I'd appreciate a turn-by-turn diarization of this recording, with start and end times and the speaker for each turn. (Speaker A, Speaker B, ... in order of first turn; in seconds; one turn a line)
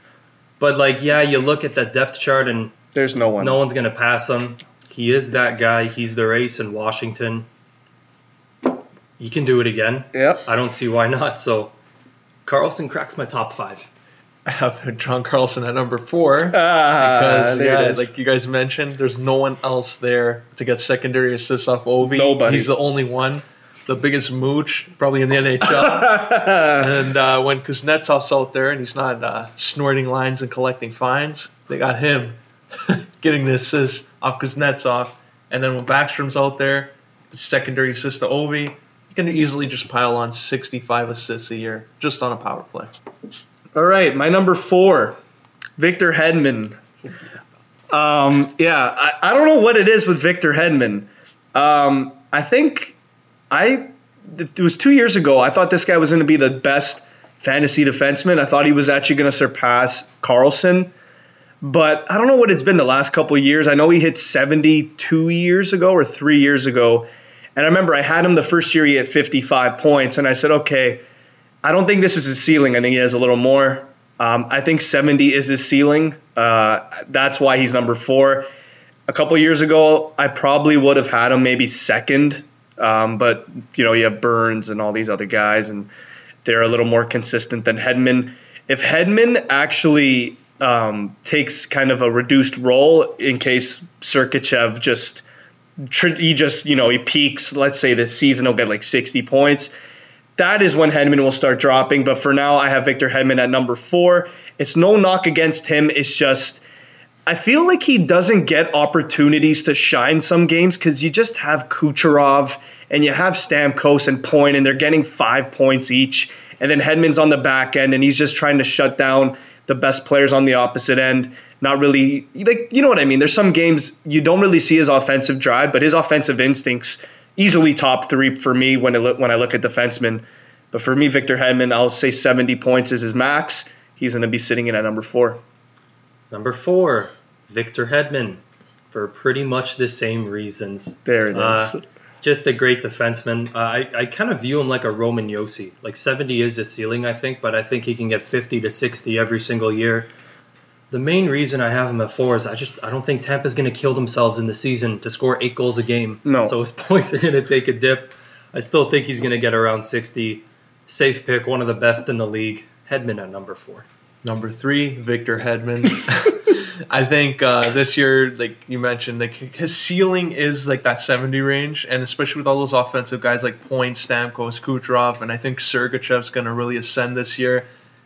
Speaker A: 0.6-2.7
Speaker B: 2.9-3.6
Speaker A: 3.4-7.5
Speaker A: 9.2-11.7
Speaker B: 10.1-10.4
Speaker A: 12.4-13.8
Speaker C: 14.4-42.9
Speaker B: 16.5-18.1
Speaker B: 22.0-22.7
Speaker B: 25.8-26.9
Speaker B: 43.7-45.2
Speaker B: 45.8-46.8
Speaker B: 47.9-53.0
Speaker B: 53.5-60.9
Speaker B: 61.6-71.0
Speaker B: 71.6-78.5
Speaker B: 79.1-85.9
Speaker B: 86.4-95.2
Speaker B: 95.9-99.7
Speaker B: 100.4-106.6
Speaker B: 107.2-135.4
Speaker A: 136.3-150.1
Speaker B: 141.0-141.8
Speaker A: 150.9-163.8
Speaker B: 156.2-156.5
Speaker C: 164.2-177.7